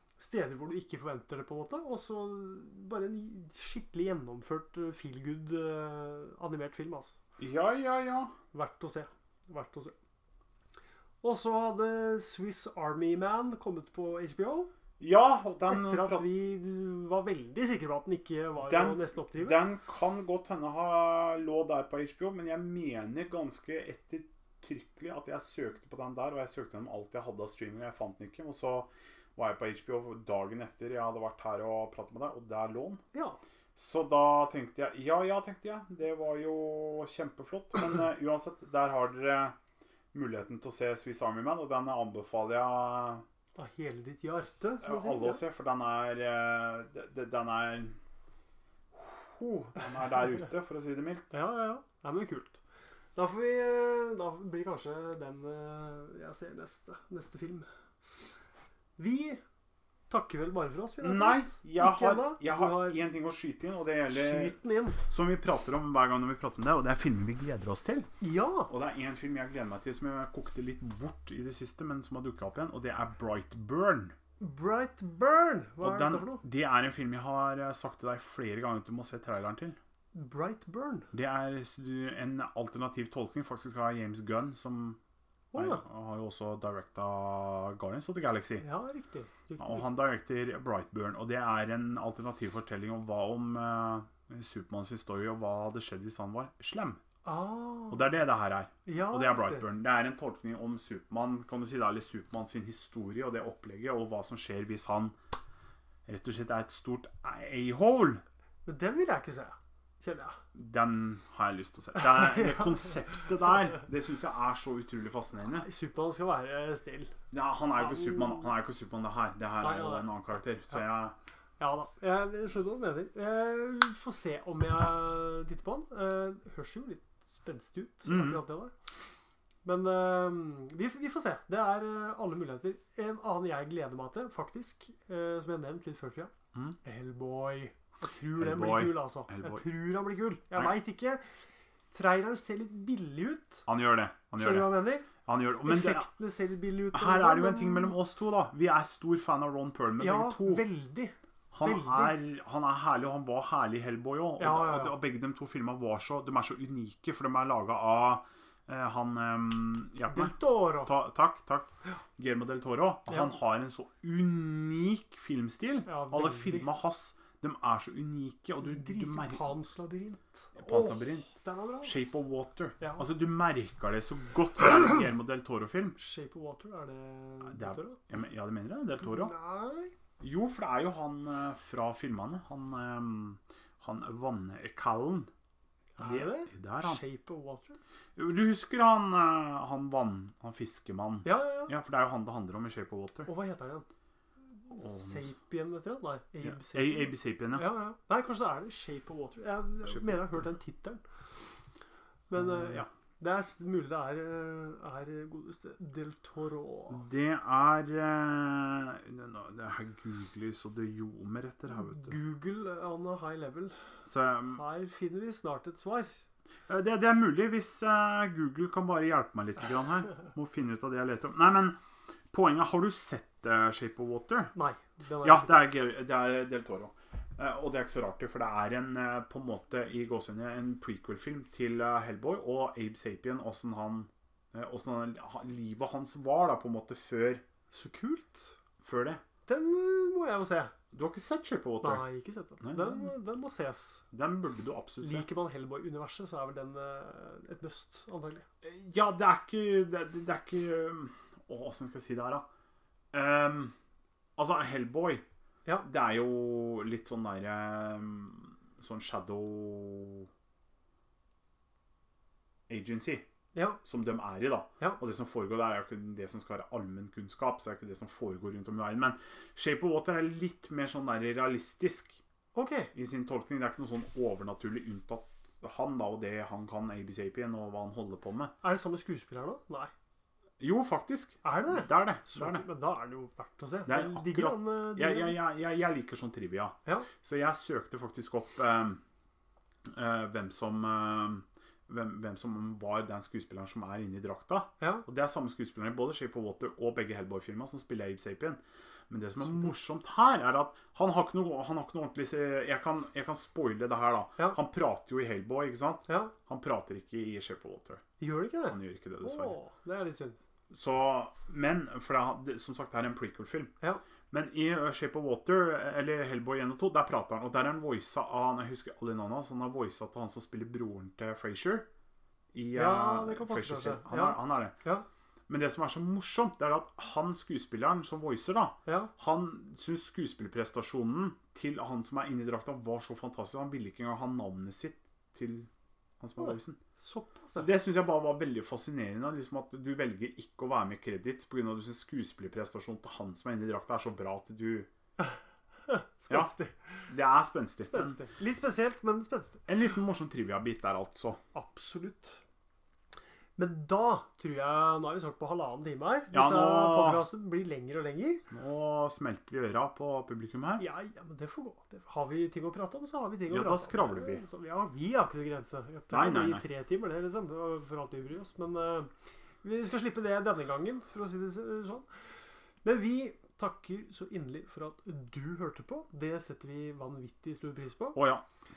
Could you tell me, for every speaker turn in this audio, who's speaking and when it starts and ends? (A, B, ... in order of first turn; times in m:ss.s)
0:00.2-0:07.2 A
0:07.4-0:08.4 B
0:08.5-0:09.9 A
0:11.2-0:14.7 A
0:15.0-0:16.3 B
0:15.7-0:19.6 A
0:18.6-0:33.0 B
0:33.1-0:33.4 A
0:33.8-0:39.6 B
0:40.1-0:43.2 B
0:43.6-0:45.4 A
0:44.8-0:48.0 B
0:48.9-0:51.3 B
0:51.3-0:52.6 A
0:53.2-0:57.7 A
0:59.0-0:59.4 A
1:00.1-1:03.0 A
1:01.0-1:04.6 B
1:04.1-1:05.0 A
1:05.1-1:08.1 B
1:08.2-1:08.7 A
1:08.7-1:14.2 B
1:14.4-1:16.4 A
1:15.8-1:19.8 B
1:20.1-1:21.1 A
1:21.1-1:25.0 B
1:25.5-1:25.8 A
1:25.5-1:28.6 B
1:28.6-1:30.0 A
1:29.6-1:37.0 B
1:37.2-1:38.1 A
1:37.9-1:45.2 B
1:38.9-1:39.7 A
1:46.1-1:48.2 B
1:48.7-1:50.4 A
1:50.5-1:55.7 B
1:55.5-1:57.1 A
1:57.3-2:01.2 B
1:57.8-1:58.5 A
1:59.6-2:00.1 A
2:01.6-2:08.7 A
2:08.1-2:08.4 B
2:09.6-2:16.3 A
2:16.8-2:21.2 A
2:18.4-2:19.6 B
2:21.9-2:23.7 A
2:23.7-2:26.1 B
2:24.4-2:25.1 A
2:25.6-2:28.0 A
2:26.9-2:30.6 B
2:30.0-2:32.2 A
2:31.5-2:49.4 B
2:34.4-2:35.0 A
2:40.1-2:40.9 A
2:45.9-2:46.7 A
2:48.6-2:52.2 A
2:50.6-2:51.3 B
2:51.8-2:56.0 B
2:52.8-2:53.0 A
2:56.0-2:58.0 A
2:57.4-2:59.3 B
2:59.0-2:59.9 A
3:00.2-3:05.3 B
3:06.0-3:07.8 A
3:06.0-3:07.0 B
3:08.2-3:13.3 B
3:11.2-3:11.7 A
3:13.3-3:13.9 A
3:14.7-3:21.0 A
3:14.7-3:15.3 B
3:16.4-3:17.6 B
3:19.9-3:20.4 B
3:22.3-3:27.1 A
3:22.4-3:22.9 B
3:26.9-3:32.2 B
3:31.7-3:33.8 A
3:34.1-3:34.6 B
3:34.5-3:36.2 A
3:36.7-3:41.8 B
3:42.3-3:44.5 B
3:44.6-3:45.7 A
3:45.2-3:57.4 B
3:57.7-3:58.6 A
3:58.8-3:59.2 B
3:59.5-4:00.7 A
4:00.9-4:02.0 B
4:01.8-4:04.0 A
4:02.6-4:03.1 B
4:04.1-4:05.3 B
4:05.0-4:08.5 A
4:08.6-4:12.5 B
4:13.1-4:13.7 B
4:14.4-4:15.2 B
4:15.8-4:20.3 B
4:22.7-4:23.3 B
4:23.5-4:23.8 A
4:23.8-4:32.2 B
4:32.6-4:32.9 A
4:32.9-4:38.5 B
4:38.6-4:39.9 A
4:40.6-4:42.6 B
4:41.4-4:45.4 A
4:43.9-4:49.0 B
4:49.9-5:08.0 B
4:54.8-4:55.0 A
5:06.1-5:06.3 A
5:08.2-5:10.4 A
5:08.7-5:09.6 B
5:10.7-5:13.7 B
5:14.3-5:21.9 B
5:22.5-5:24.8 B
5:22.8-5:25.0 A
5:25.5-5:35.7 B
5:28.9-5:29.1 A
5:36.2-5:36.8 B
5:36.4-5:37.7 A
5:37.6-5:44.9 B
5:45.9-5:47.1 A
5:47.1-5:48.2 B
5:47.9-5:49.6 A
5:49.7-5:51.4 B
5:51.6-5:52.4 A
5:53.6-5:58.4 A
5:56.3-5:57.2 B
5:58.5-6:00.8 B
6:00.8-6:09.1 A
6:03.5-6:04.4 B
6:06.1-6:06.6 B
6:09.6-6:12.1 A
6:12.8-6:18.2 A
6:18.2-6:18.4 B